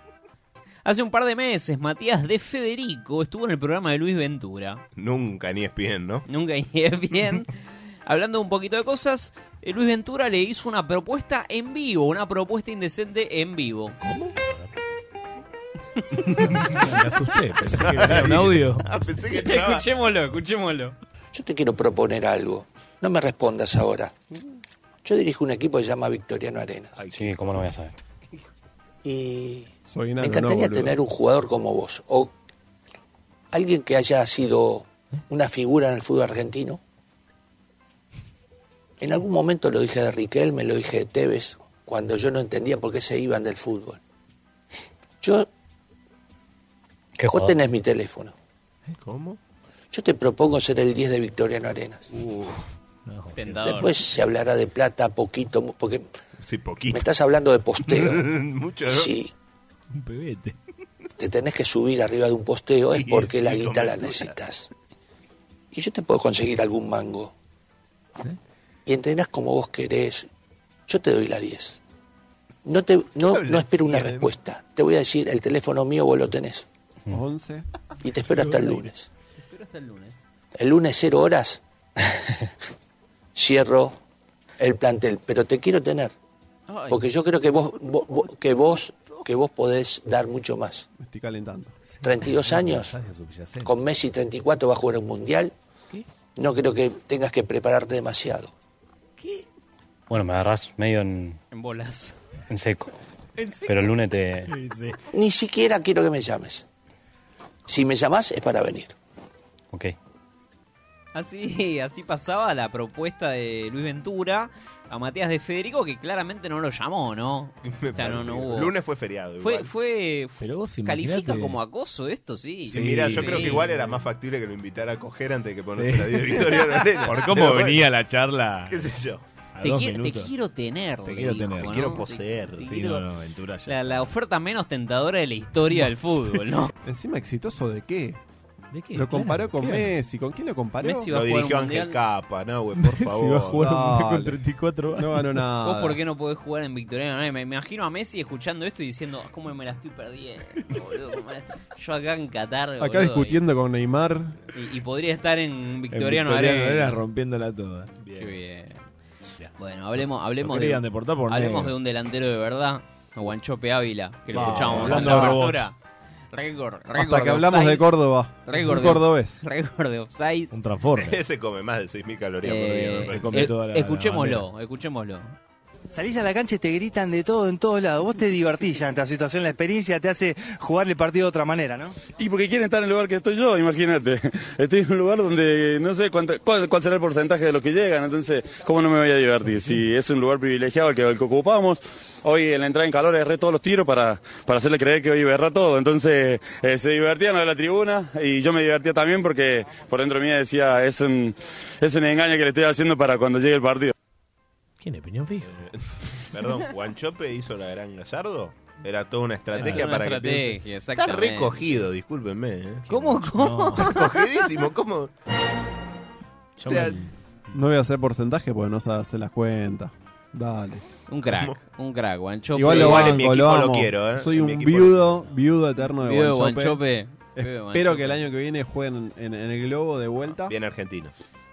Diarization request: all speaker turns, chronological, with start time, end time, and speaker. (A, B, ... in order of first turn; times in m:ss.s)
0:00.8-0:04.8 A
0:05.0-0:06.2 B
0:06.3-0:07.5 A
0:08.0-0:14.0 A
0:16.7-0:18.8 C
0:17.8-0:19.8 B
0:19.3-0:20.9 A
0:21.3-0:24.2 D
0:25.0-0:27.0 D
0:27.1-0:27.9 E
0:29.0-0:32.3 D
0:29.9-0:31.0 F
0:33.5-0:36.8 D
0:39.0-0:44.0 D
0:45.2-0:45.5 D
0:47.2-0:47.6 E
0:47.3-0:48.3 D
0:49.0-0:49.4 B
0:49.9-0:52.1 D
0:52.2-0:52.6 B
0:53.0-0:53.9 C
0:53.3-0:53.9 A
0:53.7-0:56.0 D
0:56.4-0:57.1 B
0:56.9-0:58.3 D
0:57.8-0:59.1 B
0:58.9-0:59.3 D
0:59.9-1:00.6 C
1:01.2-1:04.7 D
1:02.9-1:04.4 B
1:05.7-1:07.3 D
1:08.8-1:10.3 D
1:10.9-1:11.8 D
1:12.6-1:16.6 D
1:13.2-1:14.3 B
1:17.1-1:17.6 F
1:18.0-1:19.1 D
1:18.4-1:18.8 C
1:19.4-1:20.2 A
1:20.6-1:22.3 D
1:23.3-1:24.0 D
1:24.6-1:26.1 D
1:26.7-1:27.1 A
1:26.9-1:30.9 D
1:31.0-1:31.8 F
1:31.9-1:33.8 C
1:32.0-1:32.9 D
1:33.6-1:35.5 D
1:36.4-1:38.5 D
1:40.1-1:41.4 E
1:41.5-1:42.1 A
1:42.5-1:42.9 E
1:43.4-1:43.9 A
1:43.7-1:44.5 E
1:44.5-1:45.0 C
1:45.1-1:46.6 D
1:47.7-1:48.9 D
1:51.1-1:58.7 A
1:57.6-1:59.7 B
1:59.4-2:03.7 A
2:00.4-2:01.6 C
2:02.7-2:07.8 B
2:02.7-2:03.9 C
2:05.7-2:08.9 C
2:08.7-2:09.2 B
2:09.5-2:10.3 C
2:09.6-2:13.0 A
2:11.0-2:11.9 C
2:11.6-2:12.6 B
2:12.6-2:14.1 C
2:13.7-2:16.7 A
2:16.8-2:18.2 F
2:18.7-2:19.9 C
2:18.9-2:21.1 F
2:20.8-2:22.0 A
2:21.1-2:23.6 B
2:22.8-2:25.4 C
2:23.6-2:24.4 F
2:24.9-2:26.0 F
2:25.6-2:33.4 A
2:32.8-2:34.4 F
2:34.5-2:37.0 A
2:35.9-2:37.9 C
2:38.0-2:38.3 B
2:38.1-2:38.8 A
2:39.6-2:45.8 A
2:40.4-2:41.7 C
2:44.3-2:45.3 F
2:44.4-2:45.6 C
2:44.8-2:45.3 B
2:46.3-2:47.9 A
2:46.9-2:49.4 F
2:48.4-2:50.5 A
2:50.5-2:51.2 C
2:51.0-2:53.5 B
2:52.4-2:55.4 A
2:53.0-2:54.5 C
2:55.9-3:02.0 G
3:02.2-3:23.9 H
3:24.8-3:25.6 C
3:25.5-3:32.9 B
3:29.5-3:31.8 A
3:29.6-3:29.9 C
3:32.9-3:34.0 A
3:32.9-3:34.0 C
3:33.8-3:35.1 B
3:36.6-3:37.6 C
3:36.6-3:37.0 B
3:37.5-3:40.8 F
3:41.1-3:43.2 A
3:41.2-3:41.6 B
3:42.5-3:46.8 F
3:42.6-3:45.2 B
3:45.9-3:48.3 A
3:47.4-3:50.5 F
3:50.4-3:51.1 B